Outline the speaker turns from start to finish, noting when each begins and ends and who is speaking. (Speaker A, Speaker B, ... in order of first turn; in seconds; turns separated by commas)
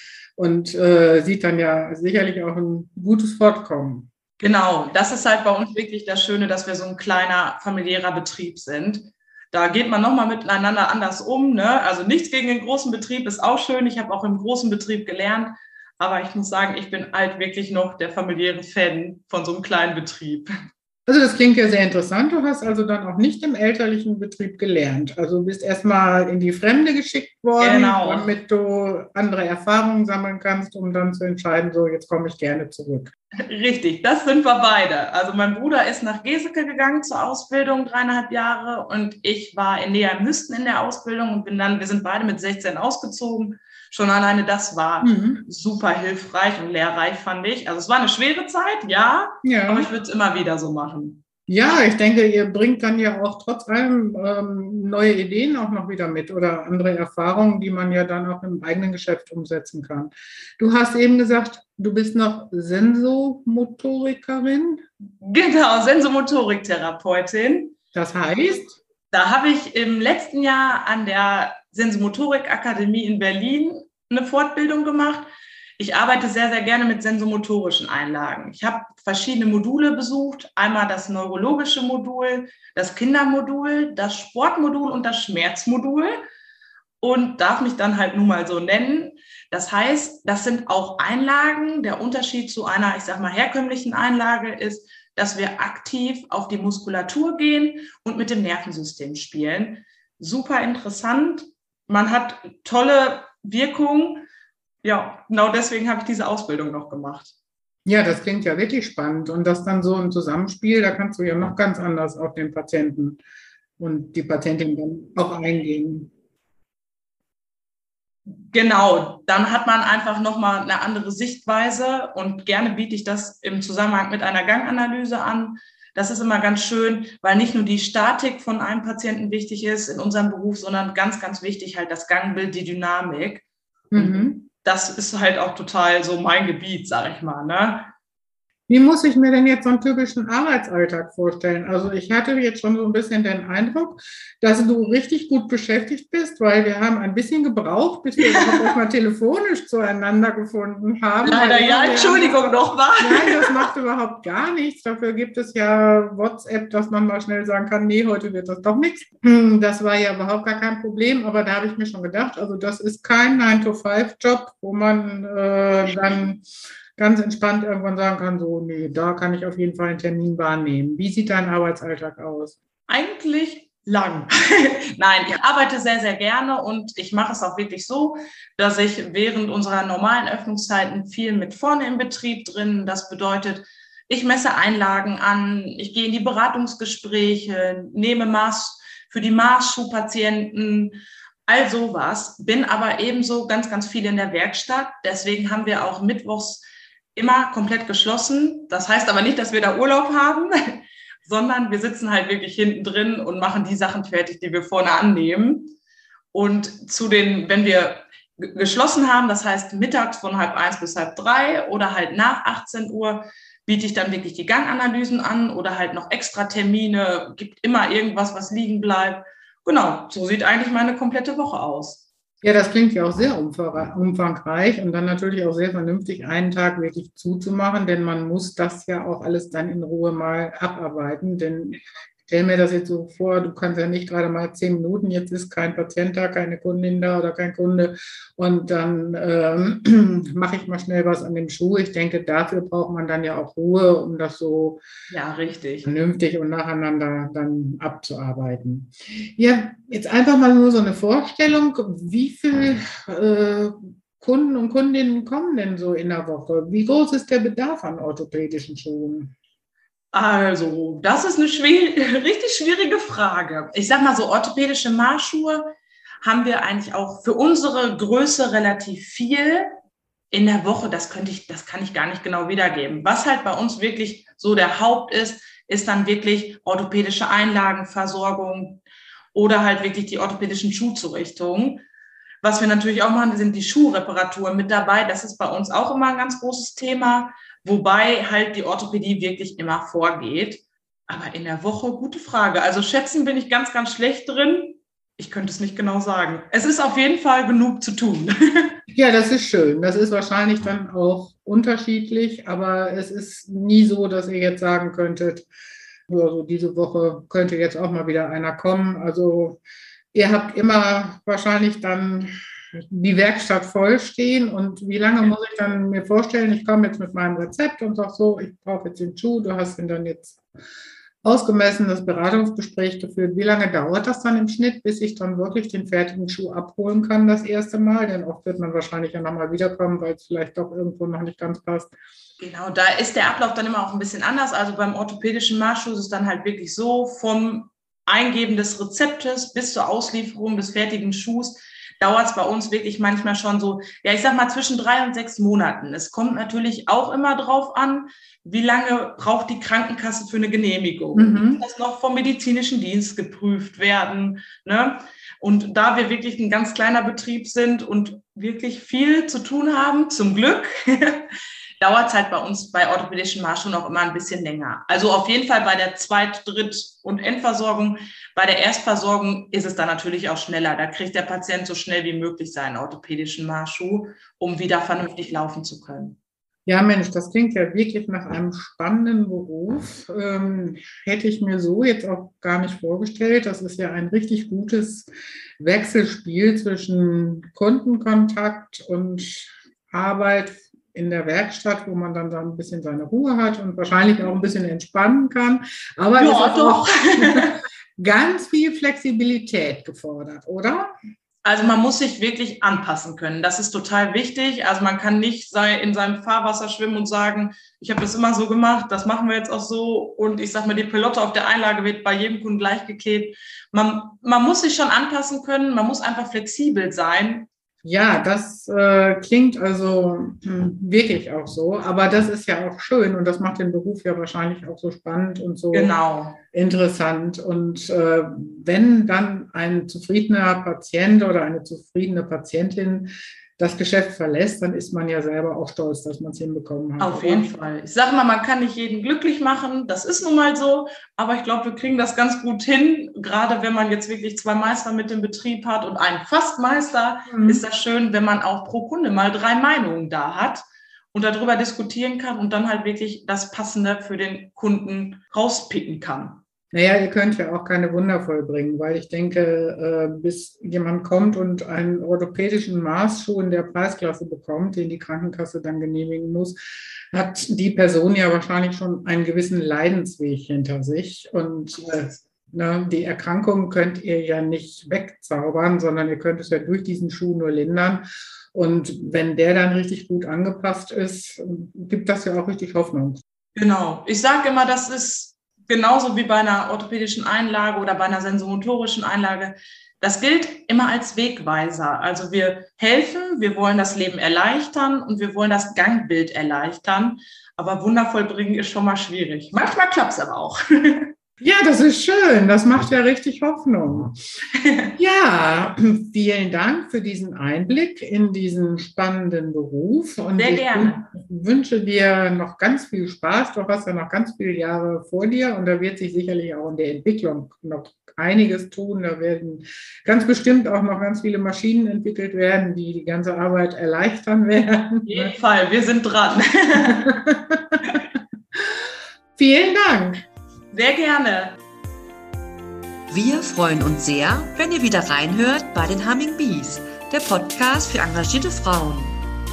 Speaker A: 0.4-4.1, Speaker B: 4.4-20.5, Speaker A: 21.1-33.1, Speaker B: 27.6-28.3, Speaker B: 33.5-51.2, Speaker A: 45.0-45.5, Speaker A: 49.4-49.9, Speaker A: 51.5-64.8, Speaker B: 65.2-67.8, Speaker A: 67.9-68.8, Speaker B: 69.1-86.2, Speaker B: 87.0-104.2, Speaker B: 104.8-107.3, Speaker A: 107.9-113.2, Speaker A: 113.8-116.1, Speaker B: 118.5-137.9, Speaker A: 133.9-134.4, Speaker A: 138.7-166.4, Speaker B: 148.2-148.7, Speaker B: 151.2-153.7, Speaker A: 167.0-172.6, Speaker B: 172.9-205.7, Speaker B: 206.3-222.1, Speaker A: 222.4-244.8, Speaker B: 245.1-245.9, Speaker A: 245.8-259.3, Speaker B: 260.1-269.7, Speaker B: 270.3-278.8, Speaker B: 279.3-281.8, Speaker B: 282.4-298.7, Speaker A: 298.9-305.5, Speaker A: 306.1-309.6, Speaker A: 310.1-320.4, Speaker A: 321.2-331.9, Speaker B: 332.4-361.3, Speaker A: 351.1-351.6, Speaker B: 361.8-376.2, Speaker A: 376.7-400.9, Speaker B: 396.2-397.6, Speaker B: 401.4-417.5, Speaker A: 417.8-425.9, Speaker B: 425.7-426.4, Speaker A: 426.5-437.5, Speaker B: 437.0-456.4, Speaker A: 447.3-447.6, Speaker A: 456.7-466.6, Speaker A: 467.1-483.2, Speaker B: 483.6-501.1, Speaker A: 501.4-504.1, Speaker B: 504.6-504.9, Speaker A: 505.0-525.3, Speaker B: 510.4-511.0, Speaker B: 525.1-527.2, Speaker A: 526.9-528.0, Speaker A: 529.4-530.2, Speaker B: 530.7-531.6, Speaker C: 533.1-539.2